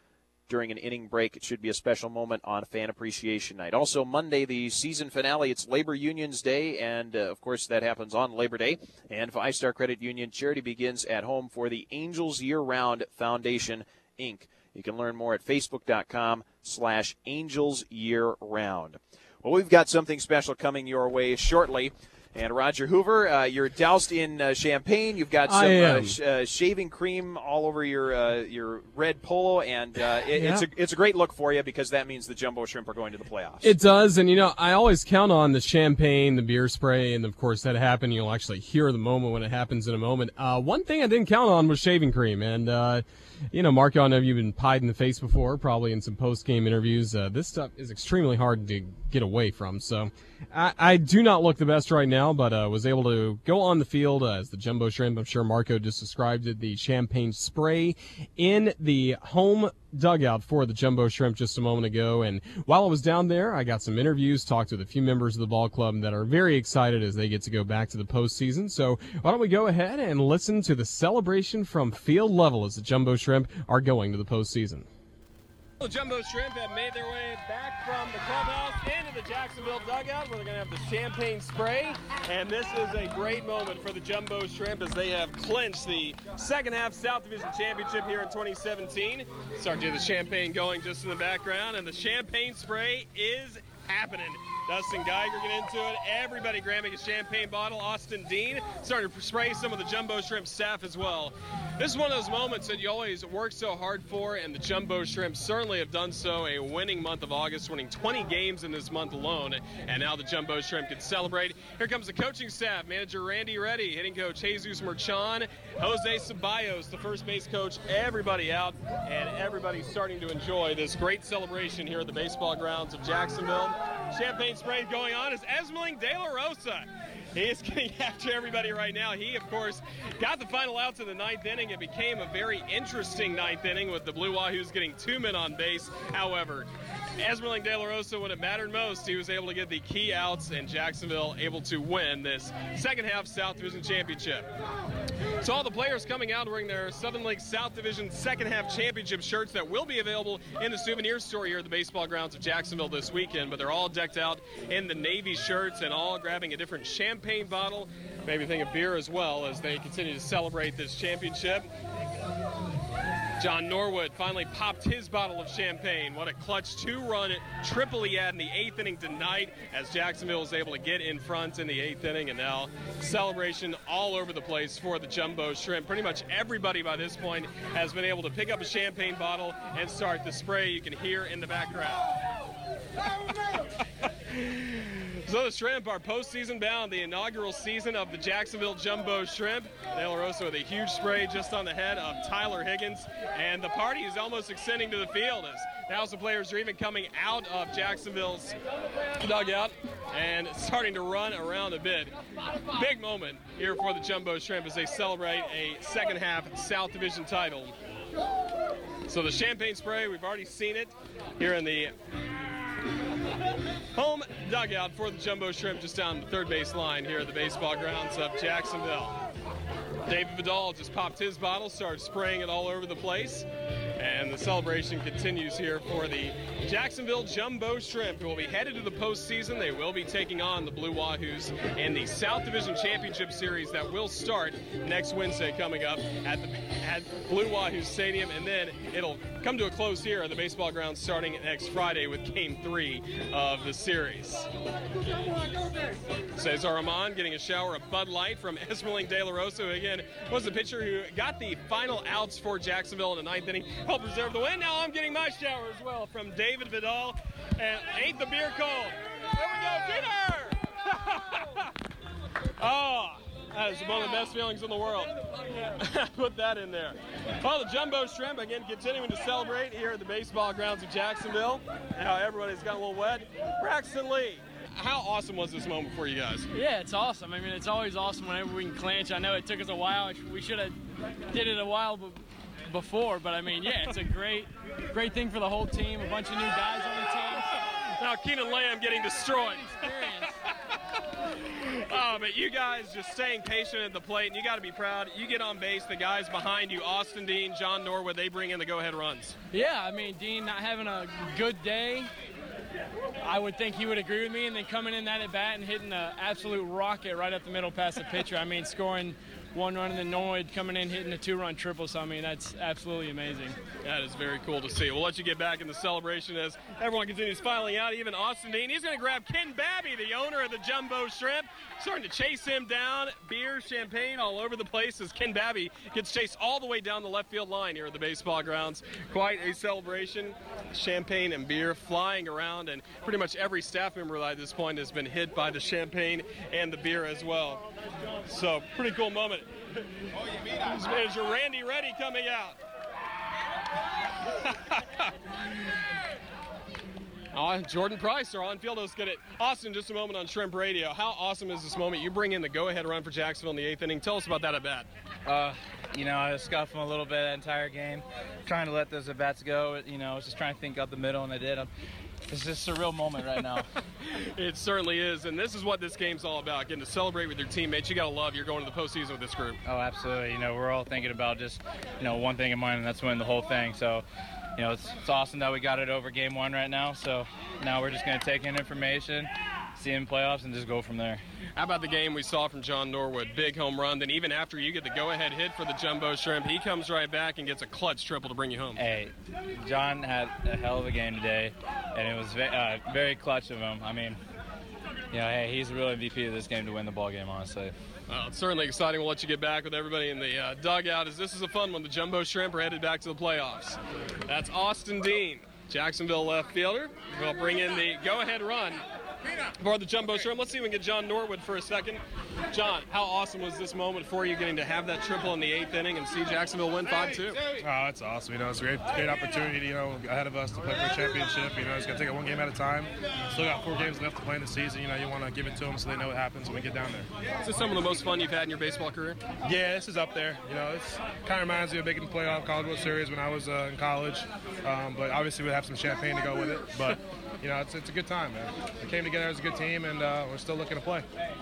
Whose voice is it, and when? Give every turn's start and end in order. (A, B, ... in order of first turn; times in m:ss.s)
0:00.5-0:33.8 A
0:25.5-0:26.1 B
0:30.4-0:30.6 B
0:33.6-1:14.9 B
1:15.8-2:24.5 C
2:25.4-2:41.7 C
2:43.4-3:02.1 C
3:03.3-3:18.6 C
3:19.2-3:22.1 C
3:22.7-3:27.8 C
3:29.1-3:31.9 C
3:34.0-3:39.2 C
3:40.1-3:43.5 C
3:44.0-4:04.5 C
4:06.3-4:21.7 C
4:22.6-4:36.5 C
4:36.5-4:40.8 D
4:41.3-4:47.6 D
4:47.6-4:50.3 C
4:49.2-4:50.4 D
4:51.4-4:59.4 C
4:59.5-5:02.1 D
5:03.2-5:13.6 D
5:13.8-5:37.7 C
5:38.3-5:39.6 C
5:40.6-5:42.6 C
5:44.2-5:45.1 C
5:47.3-5:54.9 C
5:55.2-6:01.7 E
6:02.3-6:03.7 E
6:04.0-6:09.6 C
6:09.7-6:14.0 E
6:14.6-6:21.2 E
6:21.6-6:28.8 C
6:28.8-6:34.2 E
6:35.1-6:37.7 E
6:38.1-6:48.8 C
6:49.6-6:57.4 C
6:57.6-7:07.1 F
7:07.4-7:09.2 C
7:09.4-7:21.1 F